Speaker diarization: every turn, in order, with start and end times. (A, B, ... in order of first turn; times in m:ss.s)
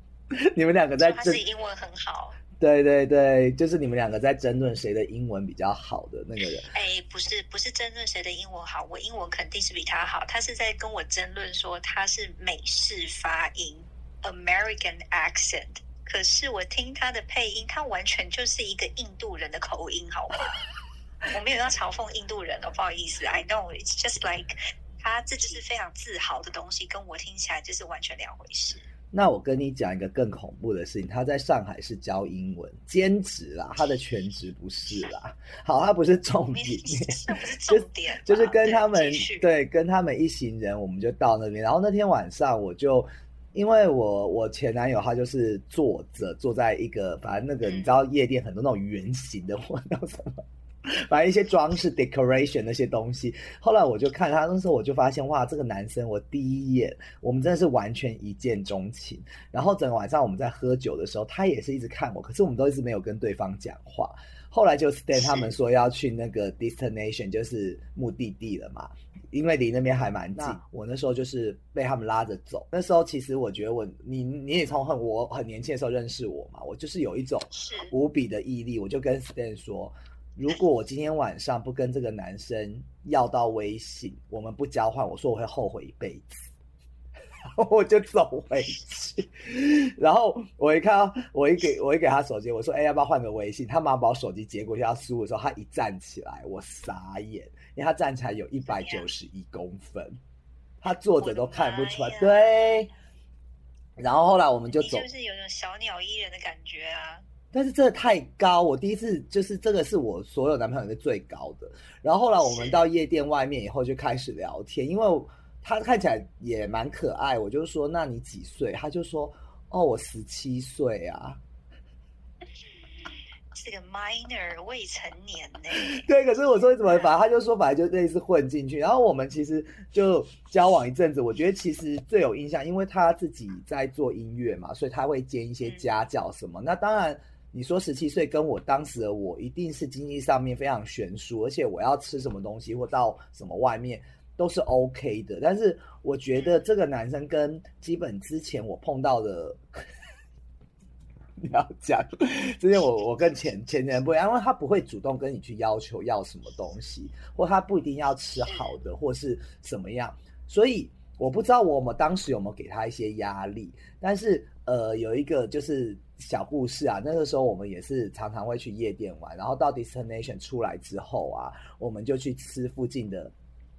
0:00.3-0:01.4 A
0:01.0-0:02.4 B
0:02.6-0:06.7 A
0:06.7-0:20.6 B
0:21.3-0:28.9 B
0:29.1-1:26.5 A
0:36.5-0:39.5 B
0:47.6-0:47.9 B
1:17.5-1:17.9 B
1:27.4-1:40.2 A
1:38.7-1:39.1 B
1:40.8-1:42.9 A
1:41.2-1:42.9 B
1:44.0-1:45.1 A
1:44.7-1:47.2 B
1:47.5-2:01.4 A
1:52.4-1:52.8 B
2:03.5-2:06.1 B
2:05.7-2:29.6 A
2:31.4-2:53.3 A